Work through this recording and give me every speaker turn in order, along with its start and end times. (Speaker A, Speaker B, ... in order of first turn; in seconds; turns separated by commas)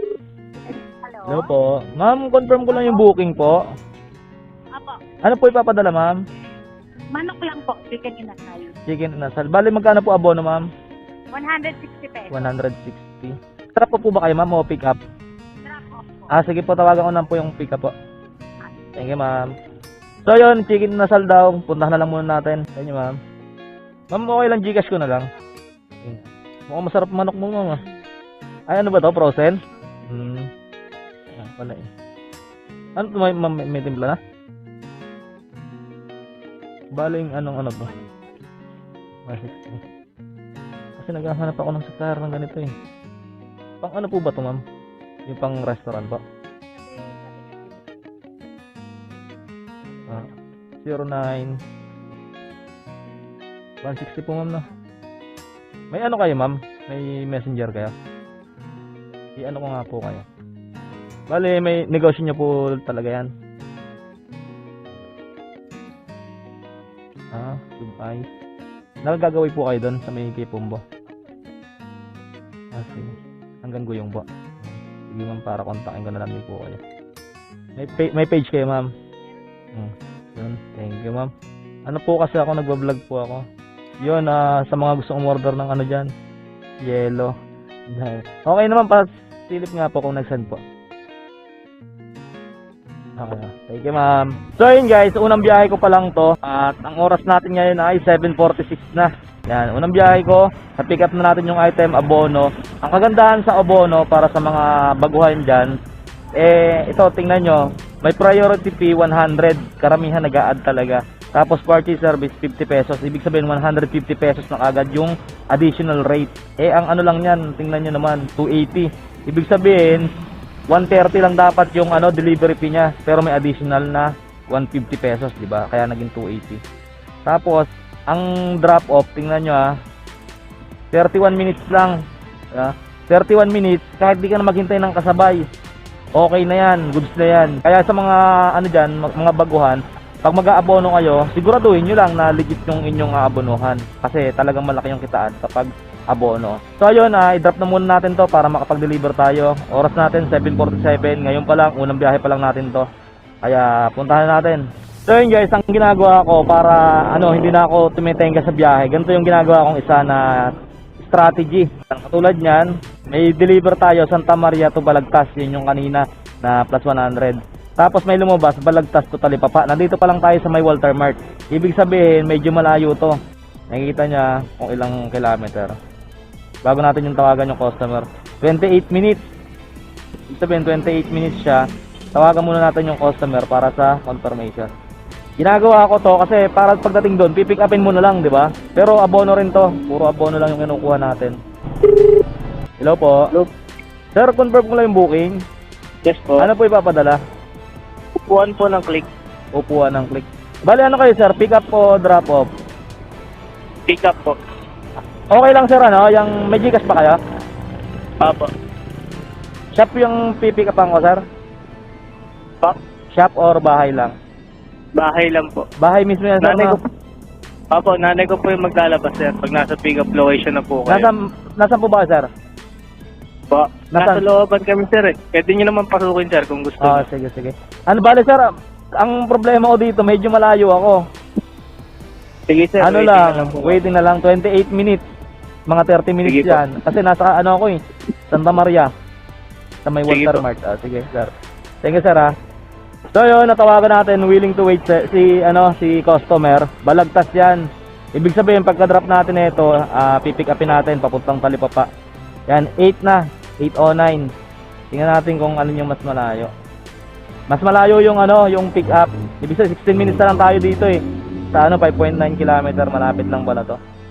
Speaker A: 1.0-1.4, Speaker B: 1.3-3.6, Speaker B: 5.2-6.2, Speaker A: 7.2-8.7, Speaker B: 8.9-10.6, Speaker A: 11.3-12.4, Speaker B: 12.3-15.0, Speaker B: 16.3-17.9, Speaker B: 18.9-19.6, Speaker B: 20.2-23.2, Speaker B: 24.1-25.3, Speaker B: 26.0-27.8, Speaker B: 28.7-30.5, Speaker B: 31.4-31.9, Speaker B: 33.0-34.2, Speaker B: 36.9-37.9, Speaker B: 39.3-39.8, Speaker B: 41.0-42.7, Speaker B: 43.8-44.6, Speaker B: 45.3-46.2, Speaker B: 50.8-51.6, Speaker B: 53.8-54.7, Speaker B: 55.9-57.9, Speaker B: 59.4-60.2, Speaker B: 61.3-63.3, Speaker B: 67.3-68.3, Speaker B: 69.0-70.8, Speaker B: 72.7-76.8, Speaker B: 77.8-78.9, Speaker B: 79.7-81.3, Speaker B: 81.9-83.4, Speaker B: 84.0-86.1, Speaker B: 86.8-87.3, Speaker B: 87.9-90.6, Speaker B: 93.2-105.8, Speaker B: 106.4-120.1, Speaker B: 120.7-126.6, Speaker B: 127.3-129.8, Speaker B: 130.9-132.0, Speaker B: 132.5-135.4, Speaker B: 136.2-152.9, Speaker B: 153.4-160.5, Speaker B: 161.0-173.2, Speaker B: 173.7-175.8, Speaker B: 176.6-179.2, Speaker B: 180.3-181.6, Speaker B: 182.2-184.7, Speaker B: 185.4-191.4, Speaker B: 192.8-193.3, Speaker B: 194.2-195.4, Speaker C: 196.1-196.5, Speaker B: 196.4-197.2, Speaker C: 198.2-199.1, Speaker B: 199.5-202.5, Speaker C: 203.9-204.4, Speaker B: 205.3-207.2, Speaker C: 208.2-208.5, Speaker B: 209.8-211.2, Speaker B: 213.1-214.2, Speaker C: 215.0-215.7, Speaker B: 215.8-216.8, Speaker C: 216.4-216.8, Speaker C: 217.7-221.1, Speaker B: 220.9-222.3, Speaker C: 223.5-227.1, Speaker B: 224.0-224.2, Speaker B: 226.8-228.5, Speaker B: 229.0-231.0, Speaker C: 232.5-233.8, Speaker B: 232.8-235.0, Speaker B: 235.7-238.9, Speaker C: 236.2-236.6, Speaker B: 239.8-241.3, Speaker C: 240.1-240.4, Speaker B: 241.8-242.3, Speaker B: 243.1-251.9, Speaker B: 252.5-254.3, Speaker B: 254.9-256.5, Speaker B: 257.5-261.0, Speaker B: 261.5-263.8